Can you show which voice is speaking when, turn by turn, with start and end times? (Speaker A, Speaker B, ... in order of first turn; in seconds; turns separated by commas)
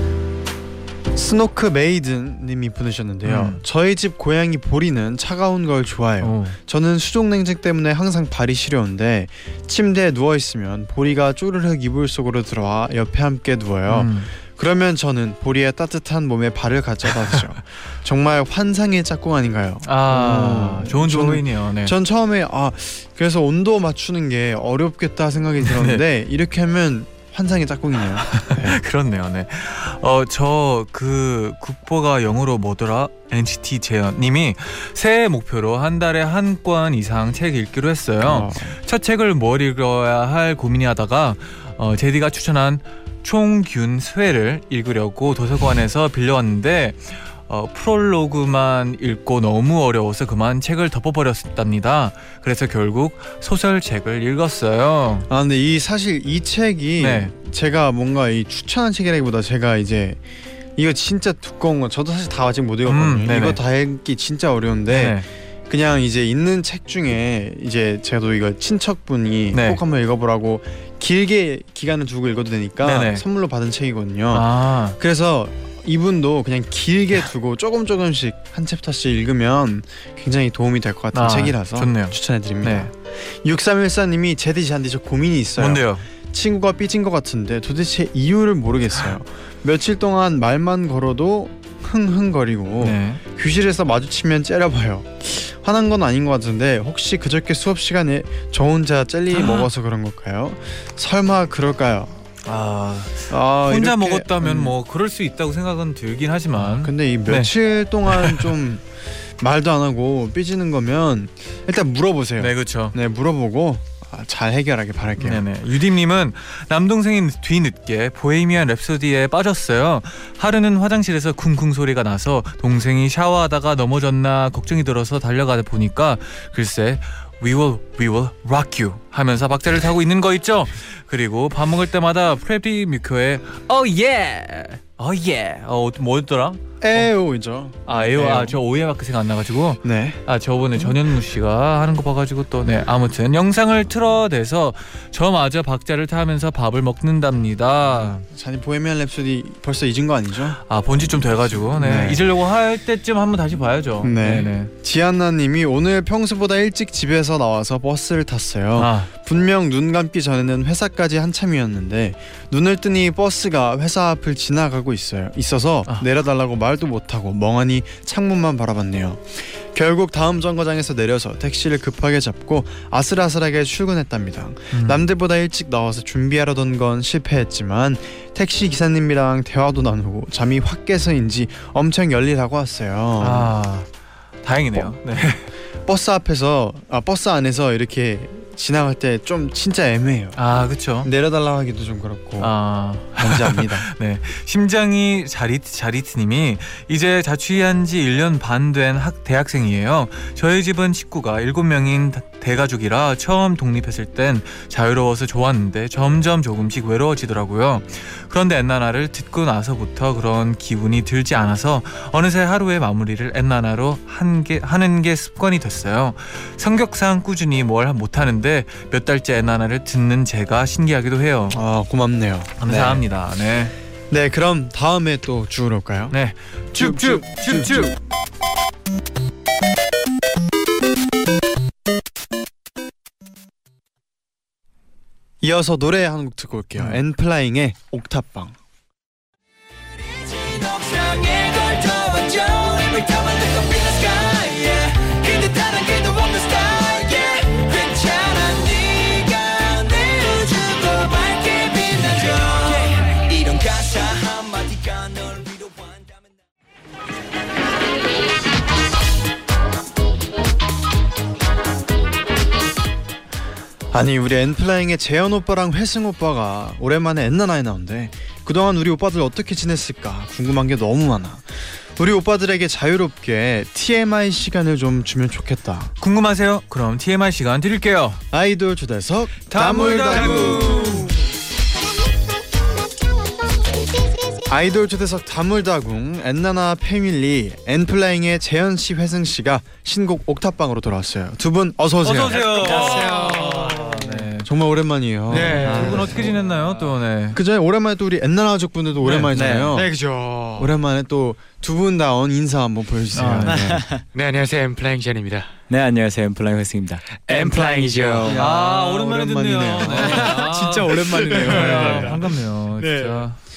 Speaker A: 1.1-28.8, Speaker B: 3.2-3.6, Speaker B: 6.2-6.6, Speaker B: 13.9-14.3, Speaker B: 19.8-21.9, Speaker B: 25.6-26.0, Speaker B: 28.3-55.3, Speaker A: 38.2-38.8, Speaker A: 55.3-60.2, Speaker B: 57.0-57.3, Speaker A: 60.8-102.2, Speaker B: 62.9-63.6, Speaker B: 64.9-65.2, Speaker B: 69.5-69.8, Speaker B: 72.8-73.2, Speaker B: 74.3-75.0, Speaker B: 81.1-82.9, Speaker B: 85.6-86.0, Speaker B: 92.8-93.2, Speaker B: 99.3-99.7, Speaker B: 102.4-107.5, Speaker A: 103.3-104.8, Speaker A: 106.5-108.8, Speaker B: 108.1-108.5, Speaker A: 109.4-115.4, Speaker B: 112.4-113.0, Speaker B: 115.2-137.1, Speaker A: 136.8-138.6, Speaker B: 137.9-148.2, Speaker A: 139.8-140.2, Speaker A: 148.2-150.6, Speaker B: 150.7-154.7, Speaker A: 151.8-152.2, Speaker A: 154.0-183.5, Speaker B: 158.8-159.1, Speaker B: 174.7-175.1, Speaker B: 183.2-183.9, Speaker B: 184.4-185.4, Speaker A: 184.7-185.3, Speaker A: 185.8-190.4, Speaker B: 190.3-191.1, Speaker A: 191.0-192.5, Speaker B: 192.4-221.6, Speaker A: 193.2-193.9, Speaker A: 221.5-223.0, Speaker B: 222.6-223.7, Speaker A: 224.1-226.2, Speaker B: 226.1-228.0, Speaker A: 226.7-227.9, Speaker A: 235.4-238.6, Speaker C: 240.0-256.2, Speaker A: 263.9-275.9, Speaker B: 276.0-278.2, Speaker A: 278.3-281.1, Speaker B: 279.5-281.1, Speaker D: 279.9-281.0, Speaker E: 280.6-280.9, Speaker A: 284.5-293.1, Speaker B: 292.0-294.5, Speaker D: 292.3-294.3, Speaker E: 292.8-293.3, Speaker A: 294.4-296.2, Speaker D: 295.3-296.3, Speaker B: 295.3-297.4, Speaker E: 295.7-296.7, Speaker A: 297.3-299.9, Speaker B: 299.0-299.3, Speaker E: 299.3-299.8, Speaker D: 299.7-300.7, Speaker A: 300.6-303.8, Speaker B: 303.1-303.8, Speaker E: 303.4-304.0, Speaker D: 304.1-305.5, Speaker E: 305.7-308.4, Speaker D: 307.3-308.4, Speaker A: 308.2-310.3, Speaker B: 308.3-313.4, Speaker E: 310.0-312.2, Speaker D: 310.9-313.2